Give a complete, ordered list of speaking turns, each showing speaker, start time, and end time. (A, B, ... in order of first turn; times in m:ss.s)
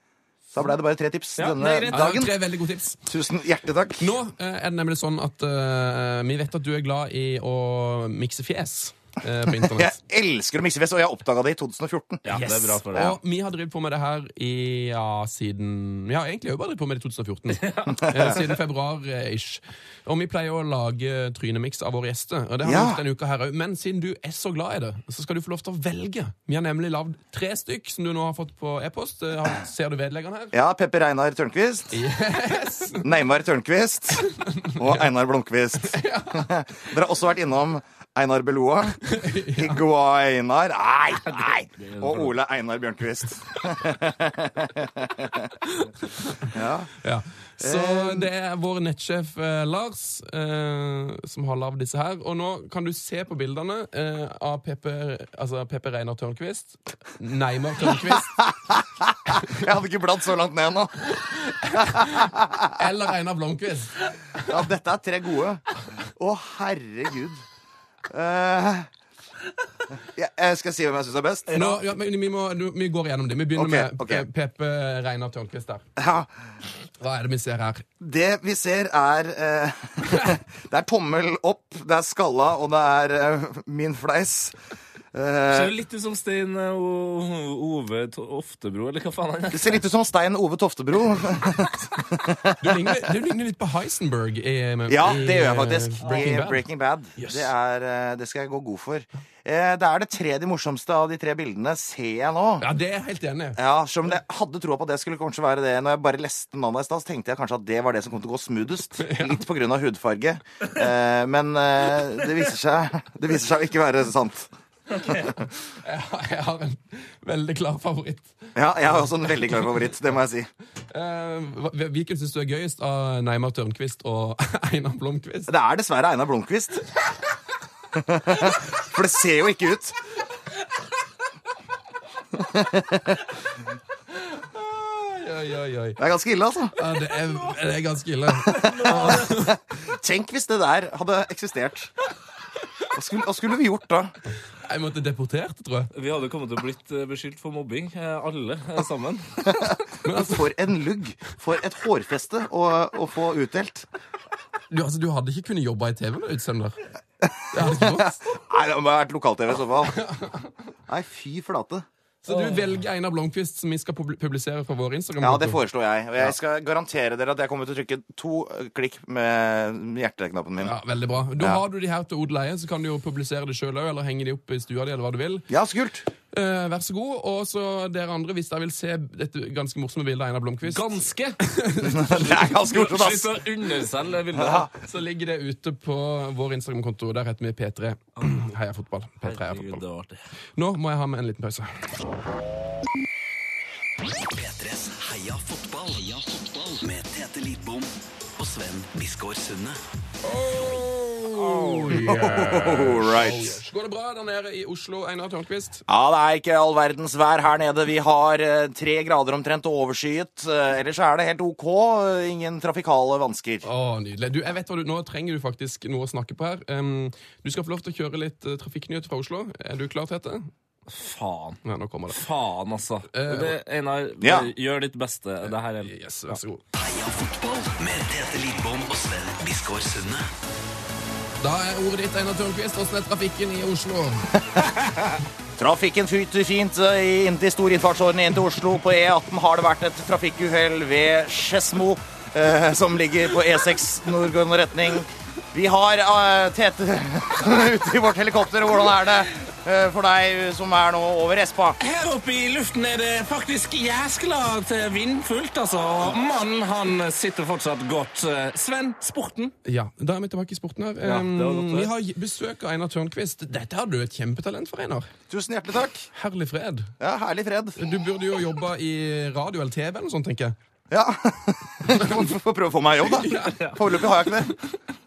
0:00.5-0:02.3 A
0:01.4-0:02.2 B
0:01.9-0:03.0 C
0:03.1-0:04.1 A
0:04.0-0:09.9 C
0:09.6-0:13.1 A
0:12.2-0:13.1 B
0:12.3-0:30.5 C
0:17.5-0:18.1 B
0:22.6-0:23.0 A
0:30.5-0:32.0 A
0:31.9-0:33.2 C
0:33.0-0:45.5 A
0:34.1-0:35.1 C
0:35.8-0:36.5 C
0:39.0-0:39.8 C
0:41.2-0:42.4 B
0:45.6-0:58.4 C
0:46.4-0:46.9 A
0:47.6-0:48.3 A
0:58.7-1:01.2 A
1:01.2-1:04.7 C
1:01.8-1:02.7 A
1:04.5-1:07.4 A
1:08.1-1:08.9 A
1:10.1-1:11.6 A
1:11.5-1:11.8 B
1:11.5-1:15.9 C
1:13.5-1:14.2 A
1:16.0-1:16.3 A
1:17.0-1:17.9 C
1:18.0-1:24.6 A
1:25.1-1:25.7 A
1:25.5-1:29.8 B
1:29.5-1:32.9 A
1:32.6-1:36.6 C
1:34.9-1:42.6 A
1:37.2-1:37.5 C
1:42.6-1:43.6 C
1:43.6-1:55.4 A
1:49.0-1:49.4 C
1:55.0-1:55.2 B
1:55.8-1:58.5 C
1:58.5-2:00.5 A
2:00.9-2:05.5 C
2:05.5-2:06.8 A
2:07.9-2:10.0 A
2:12.3-2:13.2 A
2:14.4-2:16.0 C
2:16.0-2:16.8 A
2:16.7-2:19.6 C
2:18.5-2:19.5 B
2:18.7-2:21.9 A
2:22.8-2:24.1 A
2:24.6-2:25.9 C
2:25.9-2:29.6 B
2:29.5-2:33.8 A
2:30.0-2:30.5 C
2:34.7-2:36.8 C
2:37.2-2:40.0 A
2:37.5-2:38.2 C
2:39.8-2:40.5 C
2:40.9-2:41.8 A
2:42.2-2:45.6 C
2:45.2-2:50.8 A
2:50.6-2:55.5 C
2:55.5-2:56.1 A
2:56.3-3:02.6 C
3:00.6-3:01.4 B
3:01.8-3:03.4 A
3:02.3-3:04.7 B
3:04.3-3:04.7 A
3:04.8-3:09.8 C
3:09.2-3:10.2 B
3:10.6-3:11.7 C
3:14.0-3:19.8 D
3:20.2-3:25.8 C
3:21.3-3:22.2 B
3:21.9-3:23.6 A
3:25.9-3:33.6 A
3:33.6-3:40.5 C
3:40.9-3:41.6 B
3:41.6-3:42.2 C
3:42.1-3:46.3 B
3:43.1-3:43.6 C
3:44.2-3:44.5 A
3:45.8-3:46.6 C
3:46.7-3:50.3 D
3:51.4-3:54.3 C
3:55.6-4:11.8 A
4:11.8-4:19.5 B
4:19.6-4:25.1 C
4:21.0-4:21.9 B
4:25.3-4:26.1 A
4:26.1-4:26.9 C
4:27.0-4:27.8 A
4:27.8-4:30.6 C
4:30.9-4:34.6 A
4:31.9-4:32.2 C
4:33.0-4:33.6 C
4:33.3-4:33.8 B